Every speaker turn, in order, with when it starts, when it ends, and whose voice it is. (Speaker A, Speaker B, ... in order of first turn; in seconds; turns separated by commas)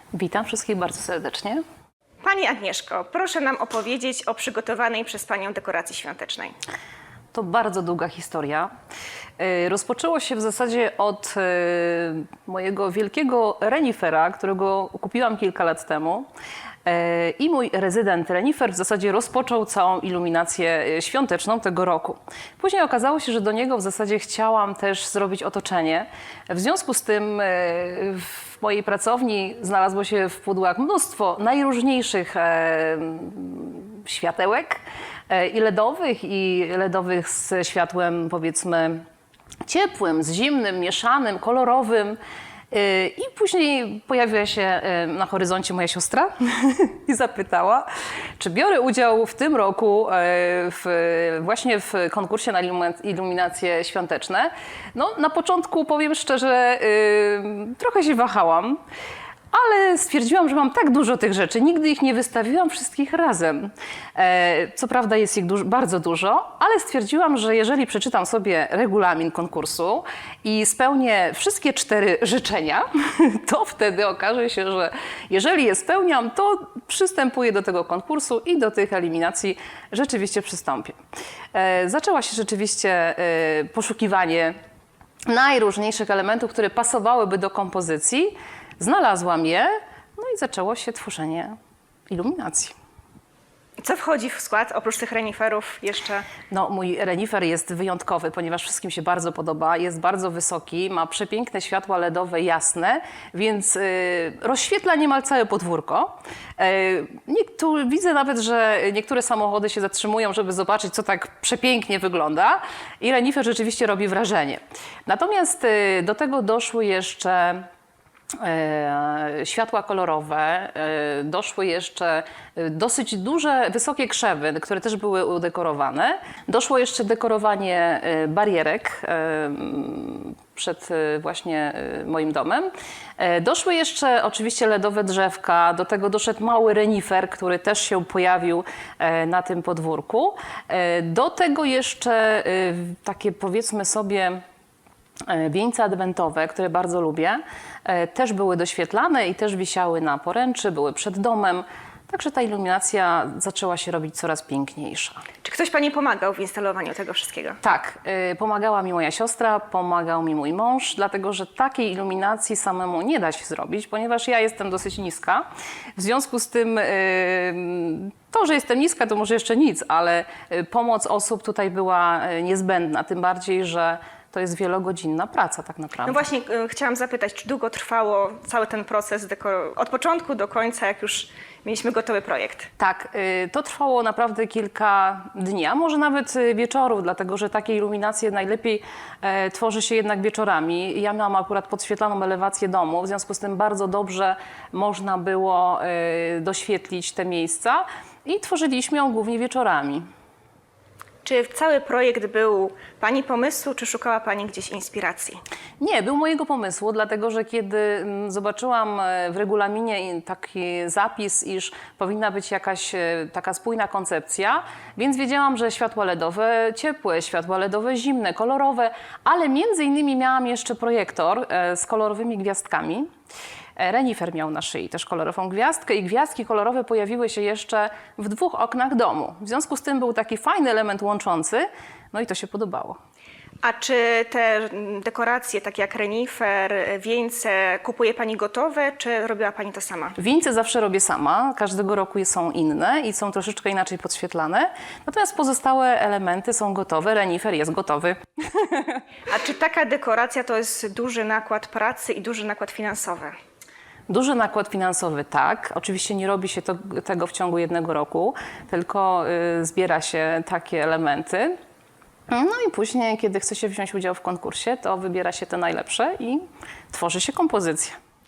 Speaker A: 0.1-1.6, Speaker B: 2.2-6.5, Speaker A: 7.3-8.7, Speaker A: 9.4-16.3, Speaker A: 16.8-39.0, Speaker A: 39.6-42.2, Speaker A: 42.7-58.8, Speaker A: 59.5-81.0, Speaker A: 81.5-84.5, Speaker A: 85.3-91.5, Speaker A: 92.1-92.7, Speaker B: 93.8-96.3, Speaker A: 96.5-117.7, Speaker A: 118.3-144.4, Speaker A: 145.3-155.2, Speaker B: 155.4-157.6, Speaker A: 157.6-176.2, Speaker B: 176.1-182.7, Speaker A: 182.8-200.1, Speaker B: 201.2-205.4, Speaker A: 205.8-223.1, Speaker A: 223.8-233.0, Speaker B: 233.6-240.2, Speaker A: 240.2-249.0, Speaker B: 249.3-253.3, Speaker A: 254.1-261.5, Speaker A: 262.3-268.0